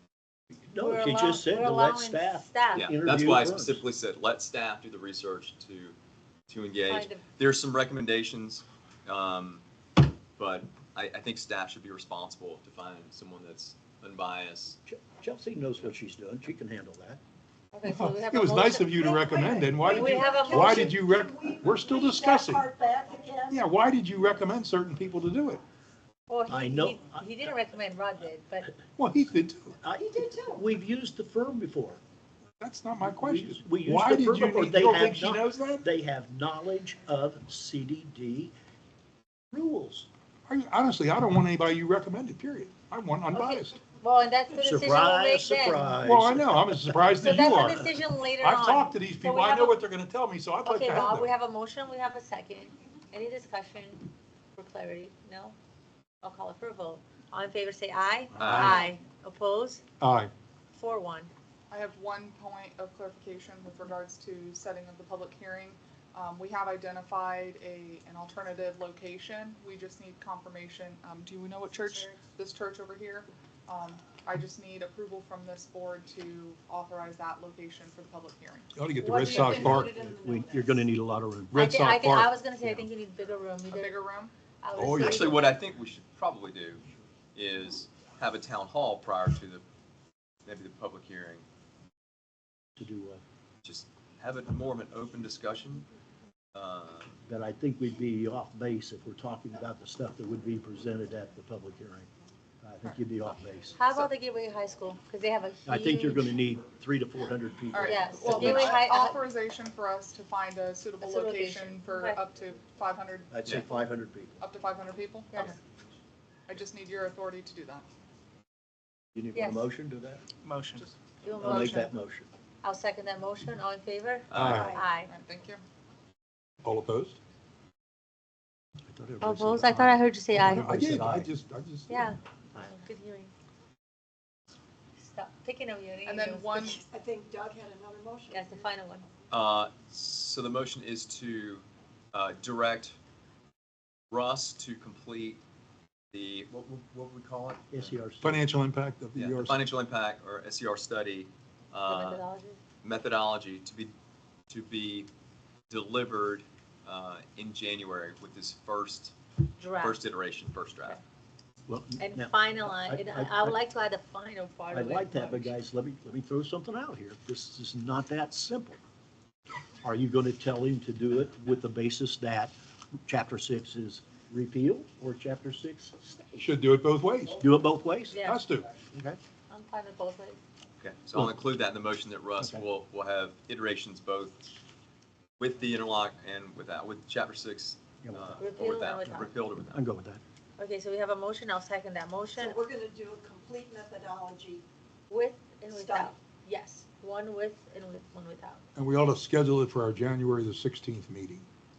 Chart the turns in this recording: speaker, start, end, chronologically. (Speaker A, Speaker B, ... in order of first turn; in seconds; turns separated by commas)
Speaker A: 0.5-3.8, Speaker B: 0.8-2.9, Speaker C: 2.7-6.0, Speaker C: 6.5-9.7, Speaker B: 6.8-7.2, Speaker C: 10.4-14.8, Speaker A: 14.9-17.2, Speaker B: 17.7-20.9, Speaker D: 17.9-22.7, Speaker E: 19.1-23.6, Speaker D: 23.5-25.6, Speaker B: 26.3-28.7, Speaker A: 26.5-27.4, Speaker D: 29.0-29.8, Speaker A: 29.8-32.0, Speaker E: 30.0-30.6, Speaker D: 32.6-35.9, Speaker A: 33.1-38.5, Speaker A: 39.5-40.1, Speaker D: 40.5-43.8, Speaker B: 43.3-46.0, Speaker A: 44.5-47.2, Speaker D: 46.0-51.3, Speaker B: 47.2-49.8, Speaker B: 50.6-55.6, Speaker B: 56.2-59.8, Speaker C: 58.4-58.8, Speaker D: 60.0-60.3, Speaker B: 60.7-61.3, Speaker F: 61.7-78.7, Speaker D: 78.8-79.9, Speaker E: 79.0-80.9, Speaker A: 79.3-81.6, Speaker D: 81.5-82.3, Speaker B: 81.6-84.0, Speaker F: 83.7-84.3, Speaker B: 84.6-85.6, Speaker D: 84.8-85.4, Speaker C: 85.0-86.8, Speaker C: 87.3-89.6, Speaker C: 90.5-91.5, Speaker A: 92.8-93.2, Speaker C: 93.6-95.9, Speaker C: 96.5-97.2, Speaker A: 97.3-102.1, Speaker A: 102.6-103.8, Speaker B: 103.8-106.3, Speaker A: 105.7-108.8, Speaker F: 107.7-113.4, Speaker B: 107.8-109.2, Speaker B: 111.0-112.2, Speaker A: 113.3-114.4, Speaker F: 114.4-115.5, Speaker B: 115.3-115.6, Speaker F: 116.5-117.9, Speaker A: 119.2-120.2, Speaker B: 119.3-119.7, Speaker F: 120.8-121.9, Speaker B: 121.2-121.8, Speaker A: 121.4-122.3, Speaker B: 122.6-125.1, Speaker C: 124.3-124.7, Speaker D: 124.3-124.8, Speaker E: 124.4-124.9, Speaker F: 125.0-125.6, Speaker D: 126.6-127.2, Speaker A: 128.9-131.3, Speaker B: 129.2-130.9, Speaker D: 130.4-132.1, Speaker B: 131.9-133.3, Speaker B: 135.0-136.8, Speaker F: 136.1-136.8, Speaker E: 136.8-138.7, Speaker B: 138.3-139.1, Speaker C: 139.3-143.0, Speaker C: 144.1-145.4, Speaker C: 146.1-147.9, Speaker A: 147.7-148.4, Speaker D: 148.2-149.7, Speaker C: 149.2-152.2, Speaker B: 151.9-152.6, Speaker C: 152.8-153.9, Speaker C: 154.5-155.1, Speaker C: 155.7-159.2, Speaker B: 159.6-160.0, Speaker C: 159.8-161.0, Speaker A: 161.7-163.6, Speaker B: 162.0-165.5, Speaker A: 164.7-168.8, Speaker A: 169.8-176.3, Speaker D: 176.4-177.4, Speaker A: 177.4-178.3, Speaker B: 178.1-178.4, Speaker D: 178.2-178.7, Speaker A: 178.8-179.2, Speaker B: 179.5-180.4, Speaker C: 180.8-184.5, Speaker C: 185.4-189.8, Speaker A: 188.0-188.6, Speaker B: 188.4-189.3, Speaker A: 189.7-190.2, Speaker B: 190.6-192.6, Speaker E: 192.4-194.7, Speaker B: 195.1-198.6, Speaker E: 195.7-196.2, Speaker D: 198.8-201.5